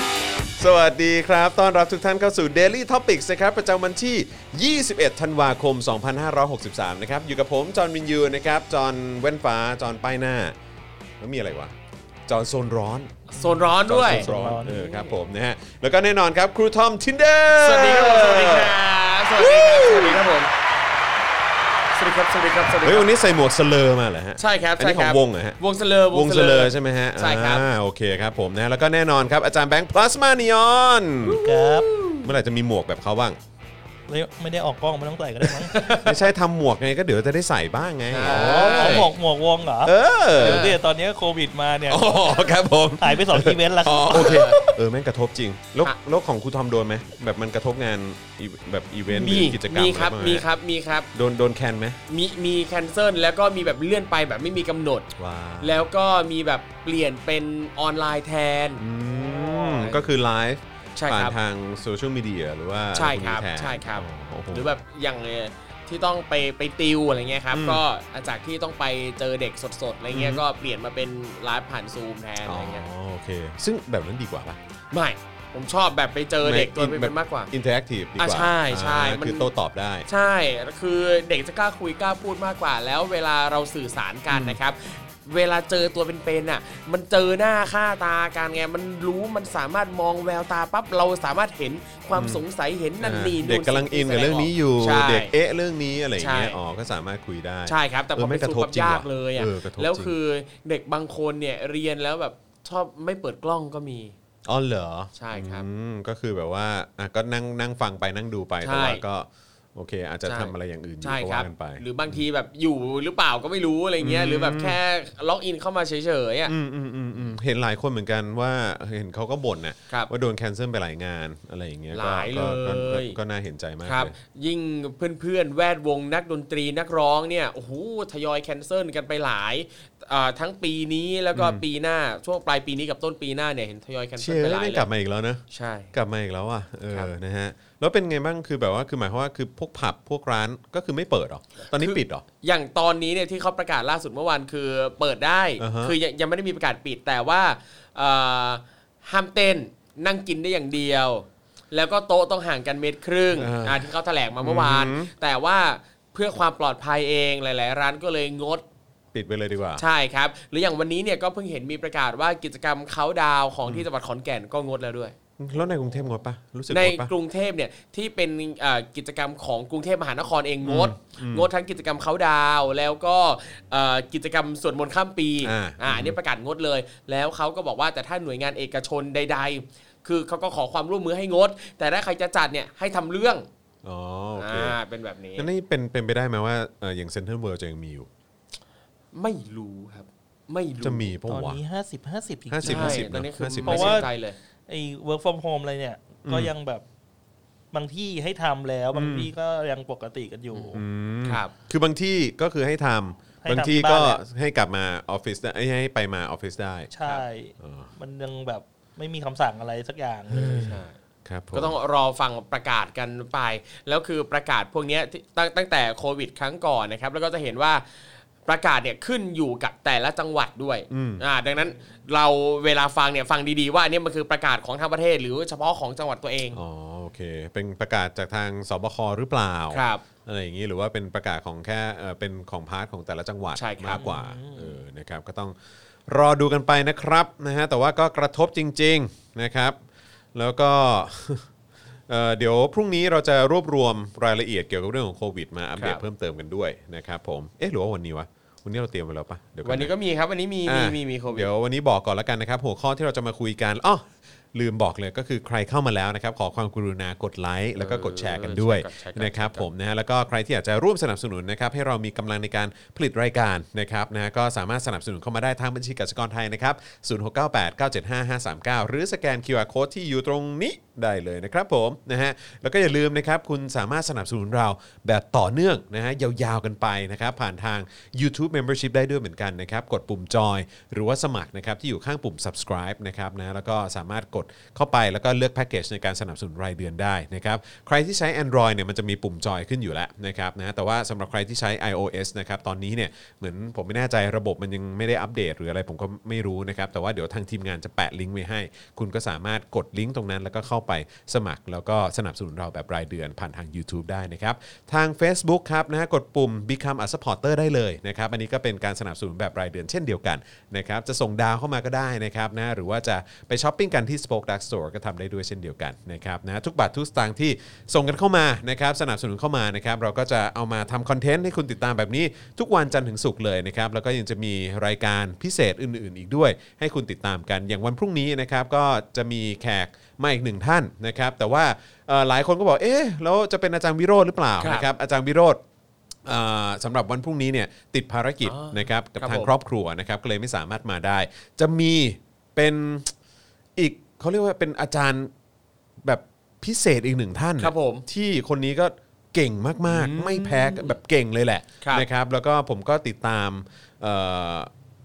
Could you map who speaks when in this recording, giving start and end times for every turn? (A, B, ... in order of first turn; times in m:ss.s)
0:00.6-0:10.6 A
0:11.2-0:11.7 A
0:12.3-0:13.2 A
0:13.3-0:15.1 B
0:13.4-0:14.9 C
0:13.9-0:18.8 A
0:17.6-0:20.5 B
0:19.4-0:20.2 A
0:21.9-0:23.1 B
0:22.8-0:25.6 A
0:24.4-0:27.7 B
0:26.1-0:33.4 A
0:31.4-0:31.9 C
0:31.9-0:32.2 B
0:34.1-0:35.8 C
0:35.6-0:36.2 B
0:36.0-0:39.1 A
0:38.1-0:39.1 B
0:38.2-0:42.2 C
0:39.8-0:40.6 A
0:40.4-0:40.8 B
0:41.9-0:50.4 A
0:43.0-0:44.8 C
0:44.1-0:44.5 B
0:49.1-0:51.1 B
0:51.1-0:52.0 A
0:52.1-0:55.1 B
0:55.1-0:55.9 A
0:55.6-1:00.1 B
0:58.8-1:04.7 A
1:01.0-1:01.4 B
1:02.9-1:12.9 B
1:07.5-1:07.8 A
1:10.1-1:10.4 A
1:12.4-1:14.6 A
1:14.9-1:17.5 B
1:16.4-1:20.1 A
1:18.2-1:19.5 B
1:20.1-1:35.3 B
1:24.3-1:24.6 A
1:32.1-1:32.4 A
1:33.0-1:40.2 A
1:36.2-1:36.6 B
1:37.7-1:44.2 B
1:44.4-1:52.2 A
1:45.1-1:45.7 B
1:48.6-1:49.0 B
1:50.2-1:56.5 B
1:54.0-1:54.8 A
1:56.4-2:04.1 A
2:01.9-2:03.2 B
2:03.8-2:14.9 B
2:11.3-2:11.6 A
2:14.2-2:22.2 A
2:15.5-2:15.9 B
2:21.6-2:38.6 B
2:25.6-2:25.9 A
2:33.3-2:33.9 A
2:34.4-2:35.1 A
2:39.1-2:39.8 A
2:39.8-2:45.2 B
2:45.4-2:47.1 A
2:46.7-3:03.5 B
2:50.6-2:51.5 A
2:55.4-2:56.2 A
3:03.8-3:04.8 A
3:04.4-3:05.5 B
3:05.4-3:08.1 A
3:09.1-3:11.1 B
3:10.8-3:11.6 A
3:11.3-3:14.1 C
3:12.5-3:14.0 A
3:12.6-3:14.4 B
3:14.7-3:16.8 C
3:16.2-3:16.5 A
3:17.7-3:20.8 C
3:18.9-3:19.3 A
3:20.7-3:26.9 A
3:21.2-3:21.5 B
3:23.4-3:24.2 C
3:26.9-3:30.7 C
3:27.6-3:27.9 A
3:30.3-3:31.8 A
3:30.7-3:31.0 B
3:31.5-3:46.6 B
3:40.9-3:41.2 A
3:46.5-3:55.6 A
3:49.7-3:50.0 B
3:53.6-3:54.1 B
3:54.0-3:54.8 C
3:56.1-3:59.8 A
4:00.3-4:01.5 A
4:02.1-4:09.9 A
4:05.8-4:06.0 B
4:09.6-4:11.5 B
4:10.7-5:35.6 A
4:17.8-4:19.7 B
5:34.6-5:34.8 B
5:36.2-5:43.1 A
5:38.4-5:39.5 B
5:43.8-5:45.3 A
5:46.0-5:54.7 A
5:47.6-5:48.0 B
5:49.8-5:51.0 B